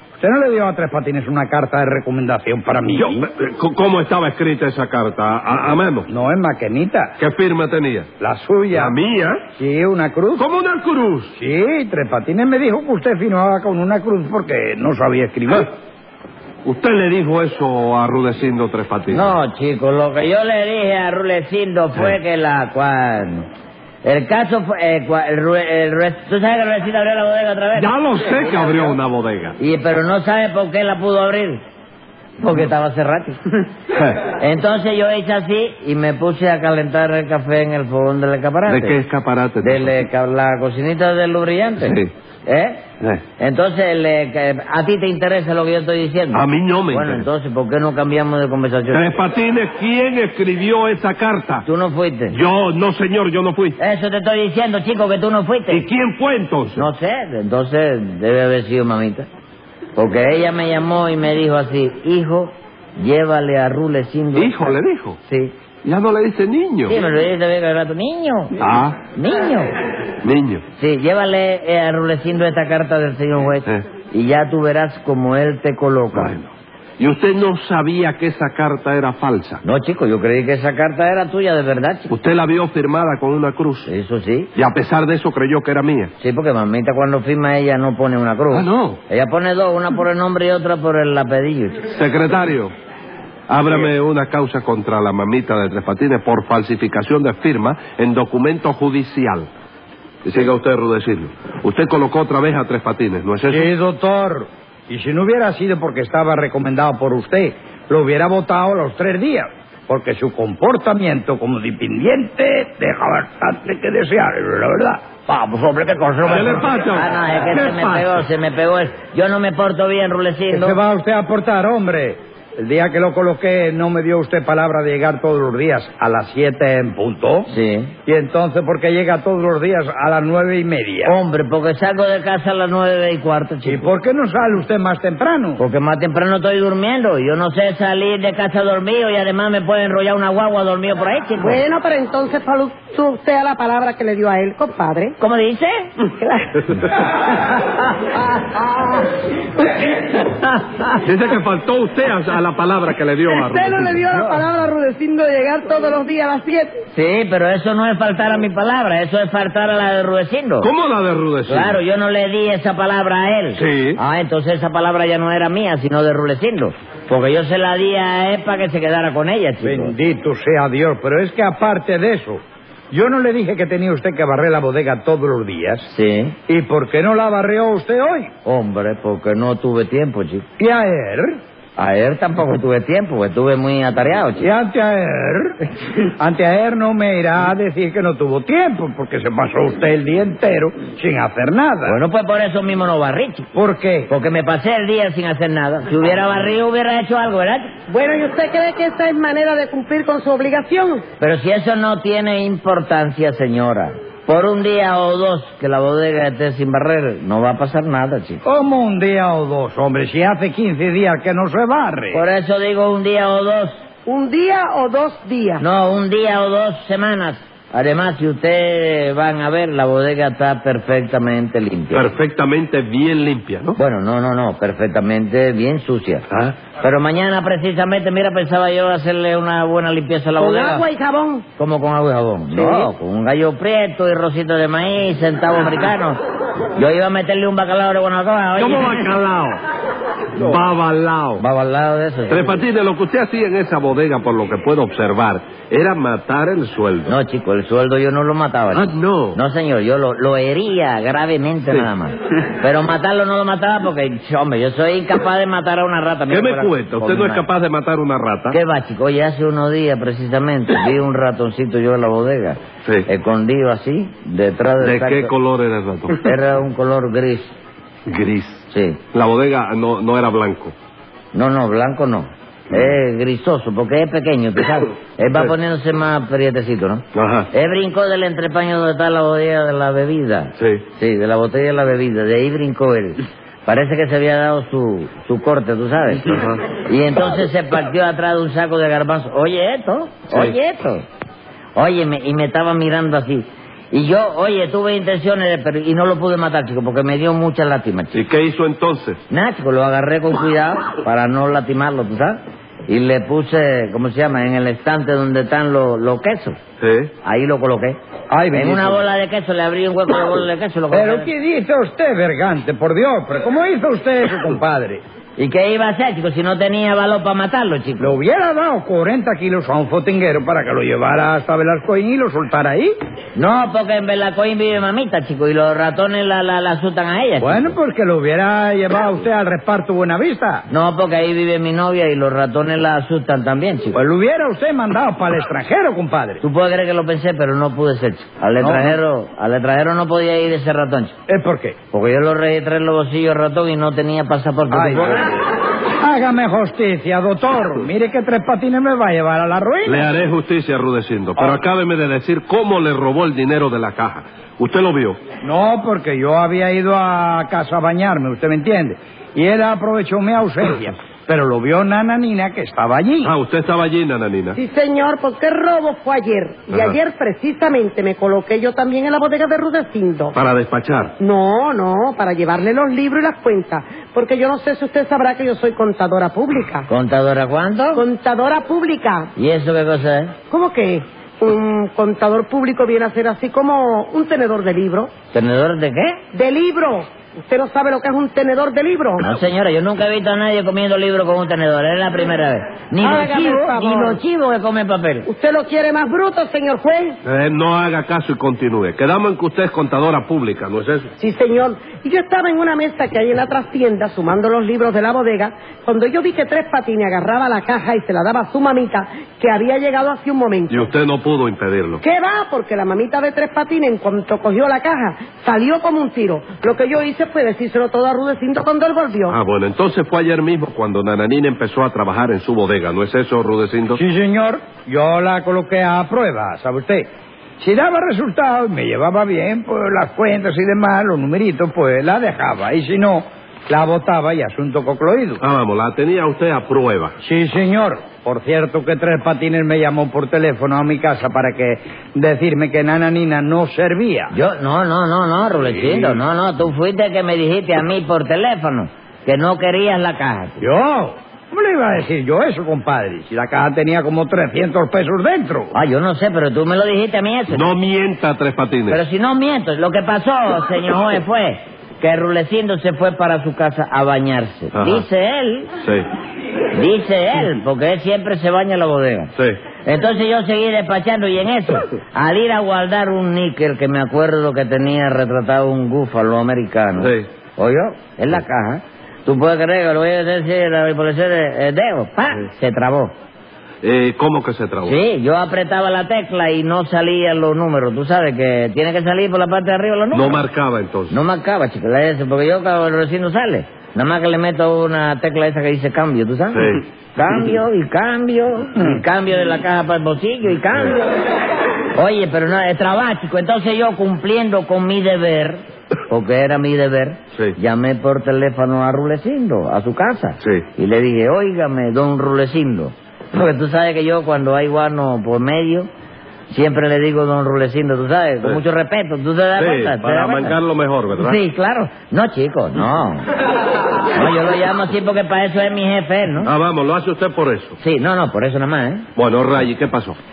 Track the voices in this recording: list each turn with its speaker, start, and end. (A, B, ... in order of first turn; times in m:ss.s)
0:00.2-0:03.3 A
0:02.9-0:06.1 B
0:06.1-0:07.2 A
0:07.2-0:08.1 B
0:08.2-0:09.0 A
0:08.7-0:09.4 B
0:09.6-0:10.4 A
0:10.4-0:11.4 B
0:11.4-0:15.7 A
0:16.6-0:19.4 B
0:19.1-0:23.5 C
0:24.0-0:29.0 C
0:27.7-0:29.6 B
0:29.6-0:31.6 C
0:32.4-0:33.4 C
0:33.9-0:34.3 B
0:34.3-0:39.0 C
0:38.7-0:40.0 B
0:39.6-0:42.8 C
0:41.8-0:42.1 B
0:43.4-0:49.2 C
0:46.3-0:47.3 B
0:48.9-0:51.7 B
0:51.6-0:52.4 C
0:52.3-0:53.8 B
0:53.8-0:55.9 C
0:55.7-0:56.9 B
0:56.8-0:59.3 C
1:00.0-1:05.6 C
1:04.4-1:05.2 B
1:05.8-1:07.0 B
1:06.9-1:09.7 C
1:08.6-1:09.0 B
1:10.2-1:10.6 B
1:10.8-1:16.4 C
1:16.1-1:19.6 B
1:19.6-1:22.1 C
1:22.1-1:23.9 B
1:23.9-1:24.5 C
1:24.6-1:26.1 B
1:26.2-1:31.9 C
1:28.5-1:29.0 B
1:31.9-1:32.7 B
1:33.5-1:39.5 B
1:40.2-1:43.7 B
1:43.5-1:56.8 A
1:56.2-1:58.2 B
1:56.9-2:00.8 C
2:00.5-2:07.5 A
2:07.5-2:08.0 C
2:08.1-2:11.2 A
2:11.1-2:13.9 C
2:13.6-2:15.6 A
2:15.6-2:21.6 C
2:21.4-2:25.2 D
2:25.2-2:25.9 C
2:26.0-2:29.0 D
2:31.0-2:34.2 B
2:33.3-2:36.8 D
2:36.9-2:40.7 C
2:40.6-2:41.8 B
2:41.5-2:49.9 C
2:43.6-2:44.0 B
2:49.6-2:55.9 A
2:55.9-2:56.4 C
2:56.5-2:58.3 A
2:58.4-3:00.5 C
3:00.6-3:01.4 A
3:01.8-3:04.5 C
3:04.4-3:05.6 A
3:06.2-3:12.0 A
3:11.8-3:13.5 C
3:13.6-3:14.1 A
3:14.1-3:17.7 C
3:17.9-3:21.0 D
3:21.2-3:28.4 C
3:28.4-3:32.2 A
3:32.1-3:33.8 C
3:34.1-3:35.6 D
3:35.6-3:42.1 C
3:41.9-3:43.8 B
3:43.8-3:46.3 C
3:46.3-3:46.6 B
3:46.8-3:50.9 C
3:50.4-3:51.4 D
3:51.6-3:56.2 C
3:52.5-3:52.9 D
3:56.8-3:59.0 C
3:58.6-3:59.6 B
4:00.4-4:01.4 B
4:01.4-4:02.7 C
4:02.3-4:07.2 B
4:07.1-4:17.4 C
4:08.7-4:09.4 B
4:16.3-4:18.6 B
4:18.5-4:25.3 C
4:24.8-4:26.3 B
4:26.2-4:27.6 C
4:28.1-4:30.8 B
4:28.7-4:29.0 C
4:31.3-4:51.0 C
4:37.1-4:37.5 B
4:40.6-4:40.8 B
4:46.3-4:46.6 B
4:51.8-4:58.2 C
4:58.1-4:59.2 B
4:59.3-5:06.6 C
5:06.8-5:07.1 B
5:07.2-5:08.0 C
5:08.3-5:09.0 A
5:08.5-5:11.3 C
5:10.9-5:15.0 A
5:15.4-5:18.2 C
5:18.0-5:22.9 A
5:23.4-5:27.8 C
5:27.4-5:30.6 A
5:30.7-5:34.0 C
5:33.9-5:36.4 A
5:36.4-5:41.2 C
5:38.6-5:39.0 A
5:41.3-5:41.8 A
5:41.9-5:45.3 C
5:44.7-5:45.3 A
5:45.9-5:50.1 A
5:49.9-5:55.2 B
5:55.4-6:03.3 A
6:03.2-6:04.6 B
6:04.6-6:10.4 D
6:06.7-6:07.0 B
6:10.3-6:11.2 B
6:11.2-6:16.9 D
6:16.9-6:18.1 C
6:17.9-6:19.3 D
6:19.4-6:20.4 C
6:20.5-6:25.1 D
6:25.3-6:26.2 C
6:26.3-6:29.2 D
6:29.2-6:35.3 C
6:33.0-6:34.2 D
6:35.3-6:37.2 D
6:37.2-6:41.1 B
6:41.2-6:50.9 D
6:50.7-6:52.0 B
6:52.0-6:59.4 D
6:59.3-7:04.0 B
7:04.0-7:07.1 A
7:07.6-7:15.4 A
7:15.4-7:17.1 B
7:17.2-7:24.3 A
7:24.3-7:30.6 C
7:25.8-7:26.2 A
7:30.6-7:35.7 A
7:35.7-7:37.7 C
7:37.5-7:39.0 B
7:38.9-7:45.7 C
7:44.7-7:45.1 B
7:45.8-7:46.1 B
7:46.7-7:49.3 C
7:49.8-8:03.1 C
7:57.0-7:57.3 B
8:03.8-8:05.0 B
8:04.8-8:10.5 C
8:10.1-8:11.2 B
8:11.1-8:21.1 C
8:16.5-8:16.8 B
8:21.9-8:35.9 C
8:30.4-8:30.7 B
8:36.5-8:40.6 C
8:39.6-8:41.4 B
8:41.2-8:43.3 C
8:43.9-8:46.5 C
8:46.4-8:47.8 B
8:47.8-8:49.1 C
8:49.2-8:50.2 B